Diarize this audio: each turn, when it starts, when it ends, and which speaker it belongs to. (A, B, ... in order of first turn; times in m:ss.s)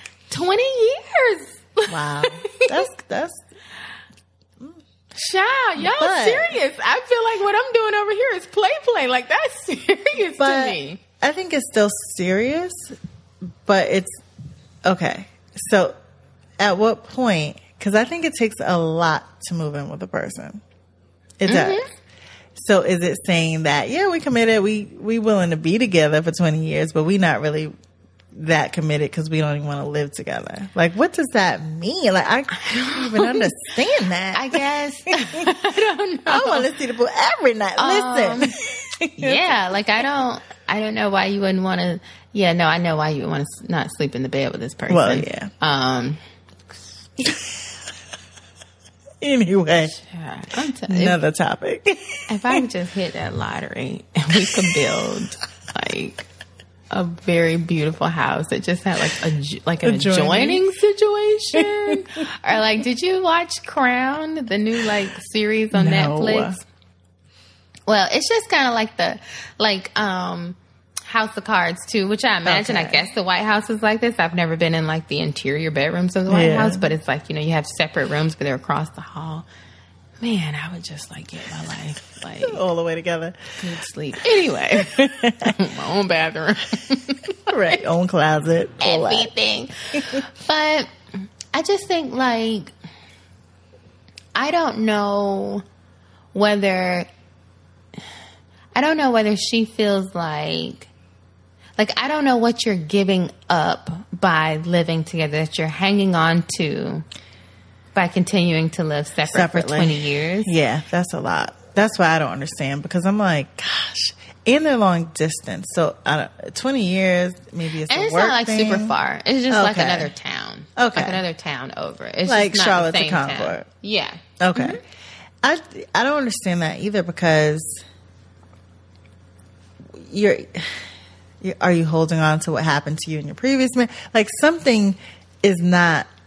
0:00.3-0:02.9 A
0:01.9-0:03.4 B
0:05.2-0:11.0 A
0:05.8-0:06.6 B
0:10.4-0:13.0 B
0:13.6-0:14.2 B
0:14.8-0:16.0 B
0:16.6-0:20.6 B
0:21.4-0:21.8 B
0:21.5-0:21.9 A
0:22.6-0:27.7 B
0:28.3-0:35.5 B
0:32.6-0:33.5 A
0:34.3-0:36.7 A
0:36.3-0:39.6 B
0:37.8-0:38.6 A
0:39.2-0:46.2 A
0:44.9-0:45.5 B
0:47.2-0:47.6 B
0:49.2-0:50.0 B
0:50.0-0:51.2 A
0:50.9-0:52.6 B
0:52.3-0:56.2 A
0:54.4-0:54.9 B
0:56.9-1:06.6 A
0:59.8-1:00.6 B
1:01.6-1:02.0 B
1:05.7-1:06.6 B
1:07.9-1:10.6 A
1:11.1-1:19.5 A
1:12.4-1:13.0 B
1:16.3-1:16.9 B
1:20.2-1:22.6 A
1:22.4-1:23.6 B
1:23.6-1:27.4 A
1:24.8-1:25.6 B
1:27.5-1:29.3 B
1:28.8-1:30.9 A
1:30.0-1:30.2 B
1:31.5-1:32.7 A
1:34.4-1:35.6 A
1:36.3-1:37.1 A
1:38.8-1:40.9 A
1:41.8-1:47.0 A
1:48.0-1:50.5 A
1:49.3-1:59.0 B
1:57.9-2:04.8 A
1:59.5-2:00.1 B
2:00.8-2:01.2 B
2:02.3-2:03.7 B
2:04.4-2:04.8 B
2:05.4-2:07.8 B
2:10.0-2:10.9 B
2:11.4-2:16.1 B